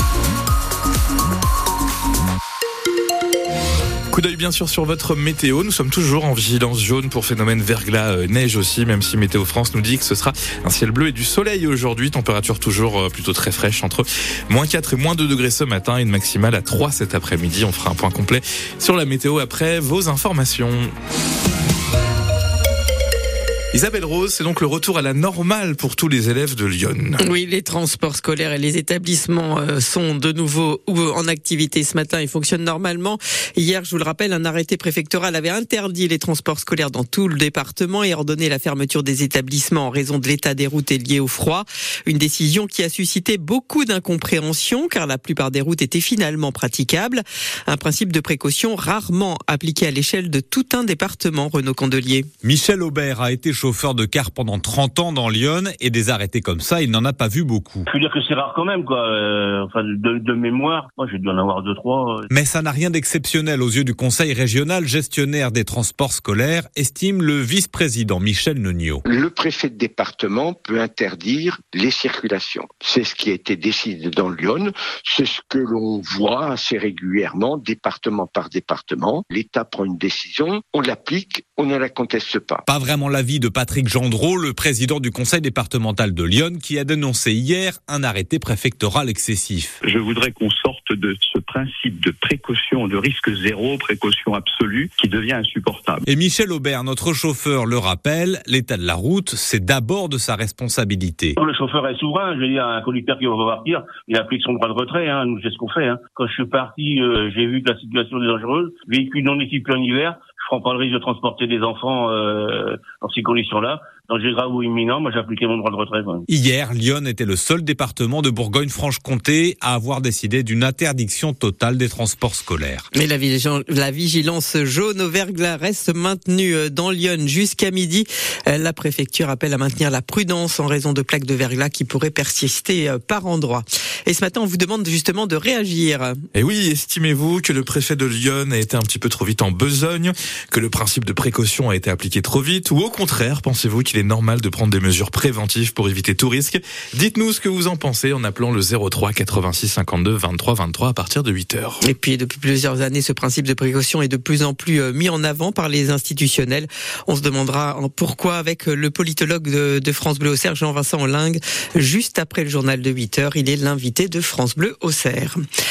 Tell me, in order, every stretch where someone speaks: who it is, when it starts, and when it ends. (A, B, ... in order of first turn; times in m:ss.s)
0:04.1-0:20.9 A
0:23.7-0:27.2 A
0:27.2-0:52.3 B
0:52.4-0:57.8 C
0:57.9-1:02.3 D
1:02.3-1:09.0 C
1:09.1-1:22.6 E
1:22.7-1:29.8 C
1:29.8-1:36.0 F
1:36.1-1:41.4 C
1:41.4-1:56.3 D
1:56.3-2:02.8 C
2:02.9-2:16.2 B
2:16.3-2:31.8 A
2:31.8-2:45.4 B